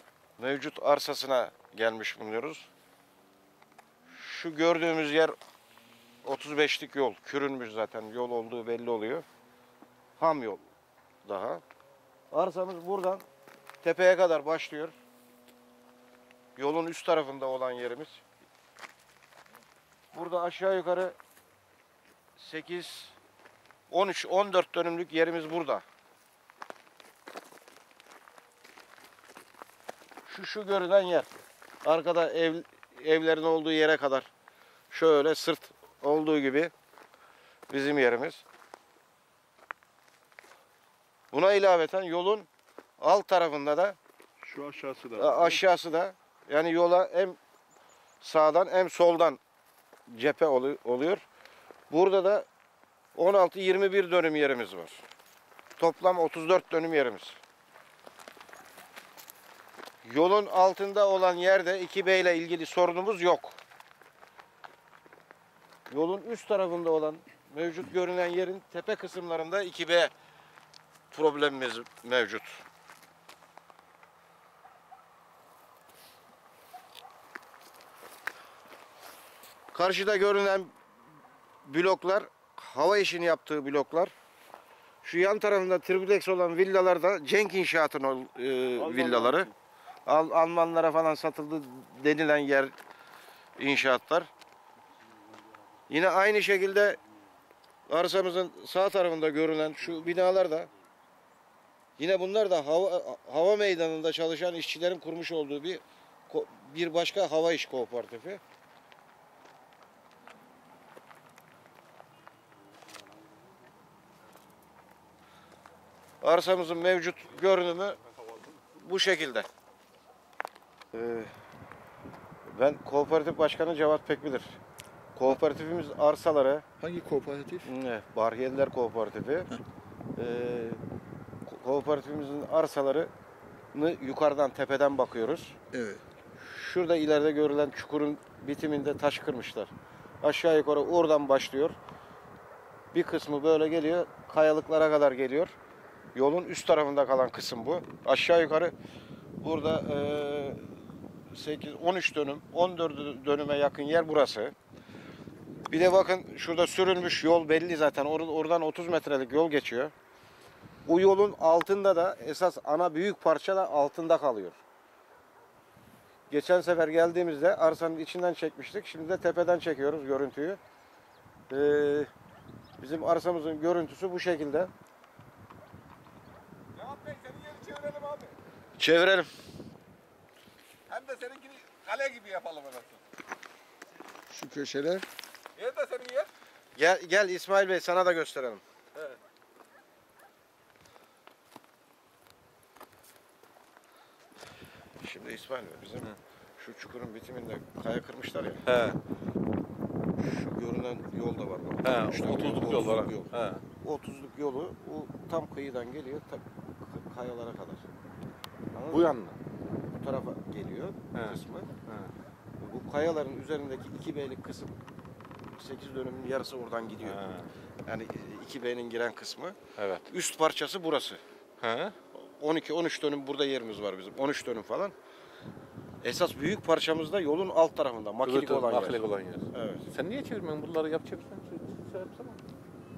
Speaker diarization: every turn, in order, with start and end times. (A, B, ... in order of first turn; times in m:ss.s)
0:00.4-0:02.7 A
0:04.1-0:05.4 A
0:06.2-0:09.2 A
0:10.2-0:10.6 A
0:11.2-0:11.6 A
0:12.3-0:13.2 A
0:13.8-0:15.0 A
0:16.6-0:18.2 A
0:20.1-0:21.2 A
0:22.4-0:23.2 A
0:23.9-0:25.8 A
0:30.3-0:31.3 A
0:31.8-0:34.3 A
0:34.9-0:36.7 A
0:37.7-0:38.4 A
0:41.3-0:42.5 A
0:43.0-0:44.0 A
0:44.4-0:45.6 B
0:45.2-0:47.4 A
0:48.2-0:49.4 A
0:50.1-0:51.2 A
0:51.9-0:52.5 A
0:53.2-0:55.0 A
0:55.8-0:57.4 A
1:00.0-1:03.6 A
1:05.9-1:10.1 A
1:11.1-1:12.6 A
1:19.7-1:20.7 A
1:21.6-1:24.1 A
1:25.0-1:29.5 A
1:28.9-1:29.4 B
1:30.1-1:32.7 A
1:33.6-1:34.3 A
1:35.9-1:37.0 A
1:37.9-1:40.7 A
1:42.0-1:48.4 A
1:56.2-1:58.0 A
1:58.7-1:59.5 A
2:00.9-2:01.3 A
2:02.5-2:04.6 A
2:05.2-2:06.6 A
2:06.8-2:07.7 B
2:07.6-2:09.5 A
2:10.2-2:10.8 A
2:11.5-2:13.1 A
2:13.7-2:15.6 A
2:15.7-2:16.0 B
2:16.4-2:19.7 A
2:20.2-2:21.8 A
2:22.9-2:25.6 A
2:26.2-2:28.7 A
2:29.4-2:30.6 A
2:31.3-2:34.5 A
2:35.7-2:39.9 A
2:40.9-2:44.6 A
2:46.3-2:50.6 A
2:51.5-2:52.1 A
2:52.8-2:54.7 A
2:56.8-2:58.4 C
2:58.8-2:59.3 A
3:00.9-3:03.0 C
3:04.3-3:05.1 B
3:05.6-3:06.3 C
3:06.8-3:08.6 A
3:15.0-3:18.7 A
3:18.6-3:19.0 C
3:20.2-3:27.8 A
3:21.8-3:23.6 C
3:28.7-3:29.1 A
3:28.9-3:29.4 C
3:30.0-3:31.7 A
3:31.1-3:32.1 C
3:32.6-3:34.7 A
3:35.6-3:37.2 A
3:37.0-3:37.5 C
3:37.9-3:39.6 A
3:39.8-3:40.1 C
3:40.1-3:41.2 A
3:41.6-3:42.0 C
3:42.2-3:45.0 A
3:46.0-3:49.9 A
3:48.2-3:52.4 C